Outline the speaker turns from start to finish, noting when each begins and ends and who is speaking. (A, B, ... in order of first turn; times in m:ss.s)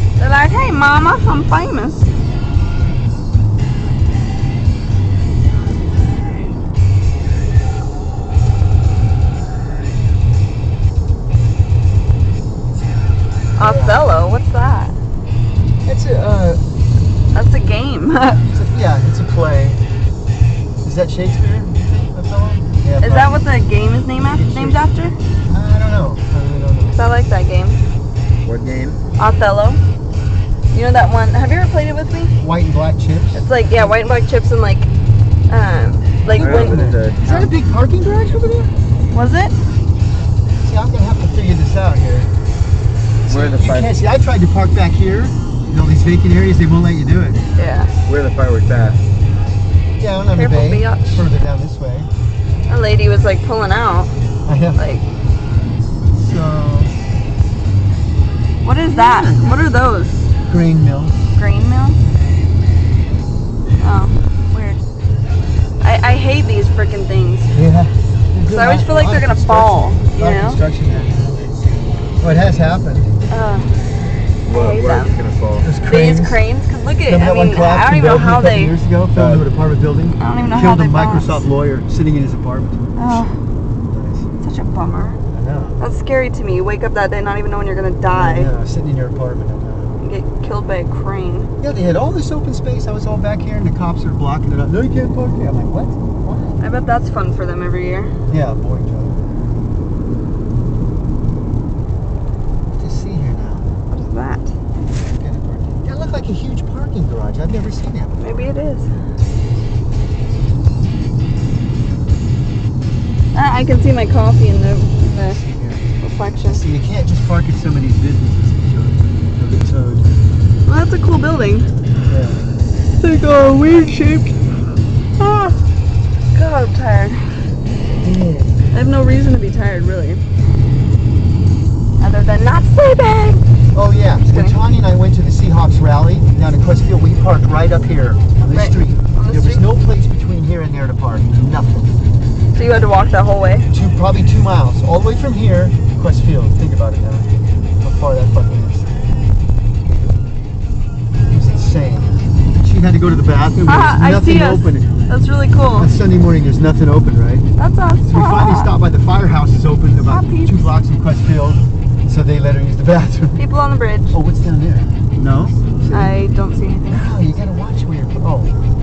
0:00.2-0:02.1 A
0:13.6-0:14.0 B
0:13.6-0:15.0 A
0:15.8-0:16.6 B
0:17.3-0:18.4 A
0:18.5-0:19.8 B
0:20.8-0:23.4 B
0:23.0-0:25.2 A
0:24.2-0:24.8 B
0:25.5-0:27.0 B
0:27.0-0:27.8 A
0:28.4-0:29.0 C
0:29.2-0:29.8 A
0:30.7-0:32.3 A
0:32.4-0:33.4 B
0:33.4-0:34.9 A
0:35.5-0:36.9 A
0:36.3-0:38.7 B
0:36.4-0:37.5 C
0:39.1-0:39.6 A
0:40.6-0:42.3 B
0:43.3-0:44.0 C
0:43.3-0:47.4 B
0:47.6-0:47.9 A
0:48.1-0:49.0 C
0:50.0-0:52.1 B
0:50.3-0:51.2 A
0:52.7-0:54.1 A
0:54.5-0:54.8 B
0:54.8-0:55.0 A
0:56.2-0:56.9 B
0:58.6-1:00.2 A
0:58.9-0:59.5 B
1:00.5-1:01.2 B
1:01.4-1:02.0 A
1:03.8-1:04.8 A
1:05.8-1:07.5 A
1:07.5-1:11.2 B
1:08.5-1:10.6 A
1:12.2-1:13.1 B
1:13.3-1:13.7 A
1:14.4-1:15.7 C
1:14.5-1:15.2 A
1:15.6-1:16.4 B
1:15.8-1:18.7 A
1:17.1-1:22.9 B
1:19.1-1:19.5 C
1:20.2-1:21.5 A
1:23.0-1:23.3 A
1:23.9-1:24.3 B
1:24.4-1:25.2 A
1:25.3-1:25.8 B
1:25.8-1:28.5 A
1:28.1-1:30.0 B
1:30.0-1:31.5 A
1:31.6-1:36.6 B
1:36.6-1:38.1 A
1:38.3-1:39.3 B
1:42.7-1:43.7 B
1:43.9-1:44.5 A
1:45.0-1:48.4 B
1:48.2-1:48.9 A
1:53.3-1:55.4 A
1:55.1-1:55.9 B
1:56.0-1:56.6 A
1:56.4-2:00.1 B
2:00.6-2:01.7 A
2:02.1-2:02.4 B
2:03.0-2:04.4 B
2:03.3-2:04.0 A
2:06.3-2:07.4 A
2:08.0-2:08.6 B
2:08.7-2:10.2 A
2:12.0-2:13.4 A
2:13.7-2:21.9 B
2:14.3-2:14.6 A
2:18.5-2:19.7 A
2:22.5-2:23.7 A
2:23.7-2:28.9 B
2:31.3-2:34.9 B
2:33.7-2:35.9 A
2:35.8-2:37.5 B
2:37.6-2:38.7 A
2:38.1-2:43.4 B
2:40.1-2:40.7 A
2:43.4-2:44.1 A
2:44.1-2:46.2 B
2:45.9-2:47.1 A
2:46.9-2:48.5 B